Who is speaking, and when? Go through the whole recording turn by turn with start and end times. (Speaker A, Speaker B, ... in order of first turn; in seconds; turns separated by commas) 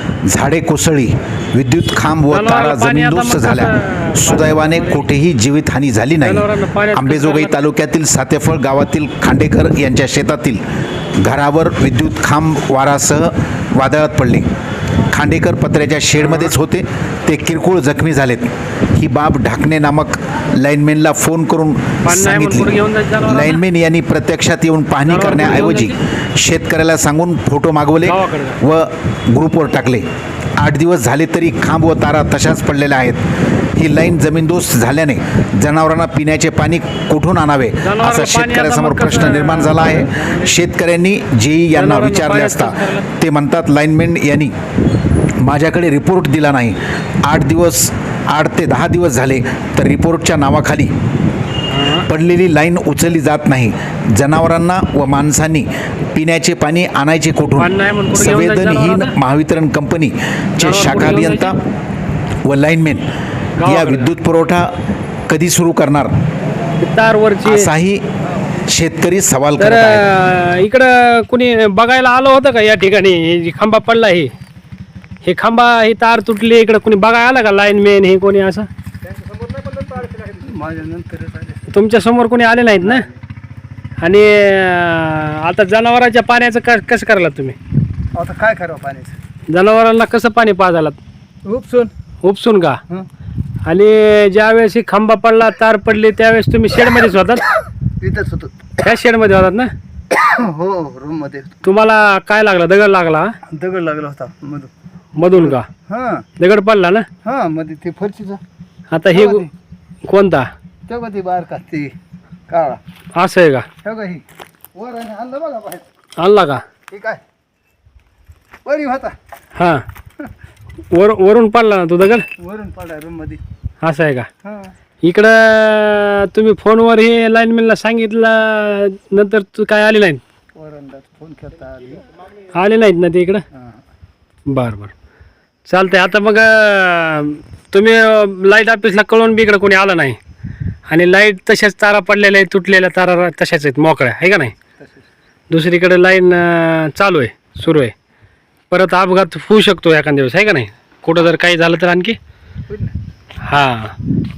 Speaker A: 0.2-10.6, Speaker B: 2.3-5.1, Speaker B: 6.2-7.6, Speaker A: 11.2-14.5, Speaker A: 15.1-22.7, Speaker B: 16.2-16.5, Speaker B: 22.0-23.6, Speaker A: 23.2-30.1, Speaker B: 25.1-26.0, Speaker B: 28.0-28.6, Speaker A: 30.6-44.5, Speaker B: 37.8-40.5, Speaker B: 41.7-43.0, Speaker A: 45.4-50.9, Speaker B: 51.7-52.1, Speaker A: 52.0-61.5, Speaker B: 57.6-59.1, Speaker B: 60.6-61.5, Speaker A: 62.4-63.0, Speaker B: 63.6-64.1, Speaker A: 63.6-64.8, Speaker A: 65.3-66.1, Speaker B: 66.8-67.7, Speaker A: 67.4-68.0, Speaker A: 68.7-70.1, Speaker B: 69.6-74.3, Speaker B: 75.2-78.7, Speaker C: 79.4-81.6, Speaker B: 81.7-83.0, Speaker B: 84.0-87.5, Speaker C: 88.1-89.1, Speaker B: 89.5-91.0, Speaker C: 91.4-91.9, Speaker B: 92.2-92.8, Speaker B: 93.6-97.5, Speaker C: 98.0-98.5, Speaker B: 98.8-99.7, Speaker C: 100.1-101.6, Speaker B: 101.6-103.3, Speaker C: 103.5-104.7, Speaker B: 105.2-105.7, Speaker C: 105.3-106.3, Speaker B: 106.4-107.1, Speaker C: 107.2-108.4, Speaker B: 108.9-109.5, Speaker C: 109.1-109.5, Speaker B: 110.0-110.5, Speaker C: 110.9-111.9, Speaker C: 112.5-112.8, Speaker B: 113.1-113.7, Speaker C: 113.8-114.2, Speaker C: 114.7-115.8, Speaker B: 116.2-116.6, Speaker C: 116.9-117.2, Speaker C: 118.7-119.1, Speaker B: 119.5-119.8, Speaker B: 120.9-122.3, Speaker C: 122.4-123.4, Speaker B: 123.8-124.3, Speaker C: 124.4-124.7, Speaker B: 125.0-130.2, Speaker C: 130.6-132.0, Speaker B: 132.5-133.4, Speaker C: 133.5-133.8, Speaker B: 134.5-134.9, Speaker B: 135.7-140.2, Speaker B: 140.9-144.6, Speaker C: 144.8-145.1, Speaker B: 145.5-147.9, Speaker B: 148.7-152.2, Speaker C: 152.7-152.9, Speaker B: 153.4-153.9